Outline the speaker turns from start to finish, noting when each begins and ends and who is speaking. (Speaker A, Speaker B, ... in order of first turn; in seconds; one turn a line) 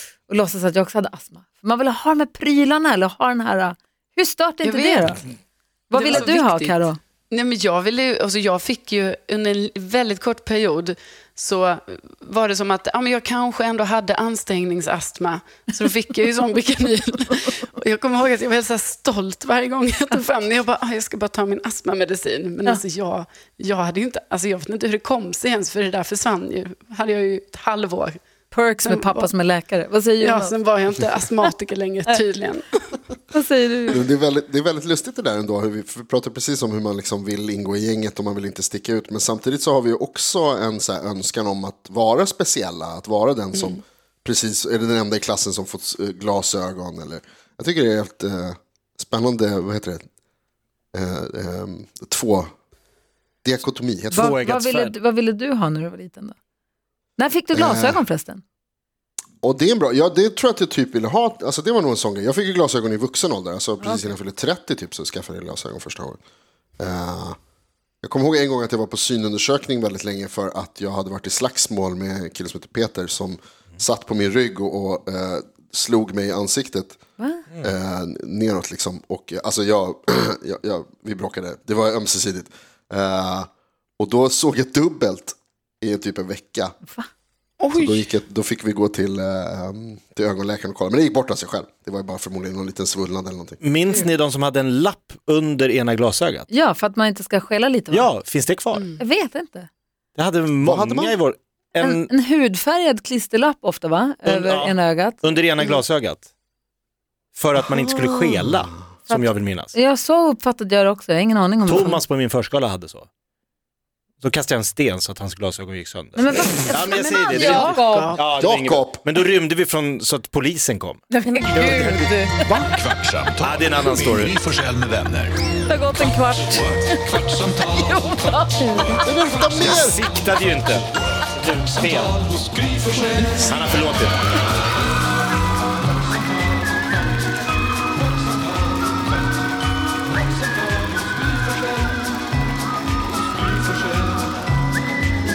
Speaker A: 0.3-5.2
Speaker B: 4.6-5.2
Speaker A: 5.9-7.0
Speaker B: 5.9-6.8
Speaker B: 7.3-28.2
Speaker A: 28.5-30.6
Speaker B: 28.8-29.3
Speaker B: 30.2-33.0
Speaker A: 33.3-34.0
Speaker C: 33.9-50.0
Speaker C: 50.9-52.5
Speaker C: 53.4-54.4
Speaker D: 54.1-54.9
Speaker A: 54.1-56.4
Speaker A: 57.2-58.4
Speaker C: 57.5-58.0
Speaker C: 59.4-66.2
Speaker A: 63.8-64.1
Speaker C: 66.8-67.4
Speaker C: 68.0-77.0
Speaker A: 77.2-77.4
Speaker C: 77.6-86.8
Speaker B: 87.6-88.1
Speaker C: 87.7-93.6
Speaker D: 93.6-96.5
Speaker A: 96.5-98.1
Speaker D: 97.9-98.9
Speaker B: 98.7-99.0
Speaker A: 99.0-99.7
Speaker D: 100.2-102.1
Speaker C: 100.6-101.1
Speaker A: 101.8-105.6
Speaker D: 104.2-106.2
Speaker D: 107.3-109.7
Speaker A: 109.1-112.0
Speaker D: 111.7-113.1
Speaker D: 114.2-122.2
Speaker A: 116.2-118.2
Speaker B: 117.3-118.2
Speaker C: 118.4-119.0
Speaker A: 121.1-122.6
Speaker E: 122.6-125.4
Speaker D: 123.4-124.3
Speaker A: 125.7-129.1
Speaker E: 126.6-129.0
Speaker C: 128.9-130.1
Speaker D: 129.6-132.2
Speaker D: 133.2-134.2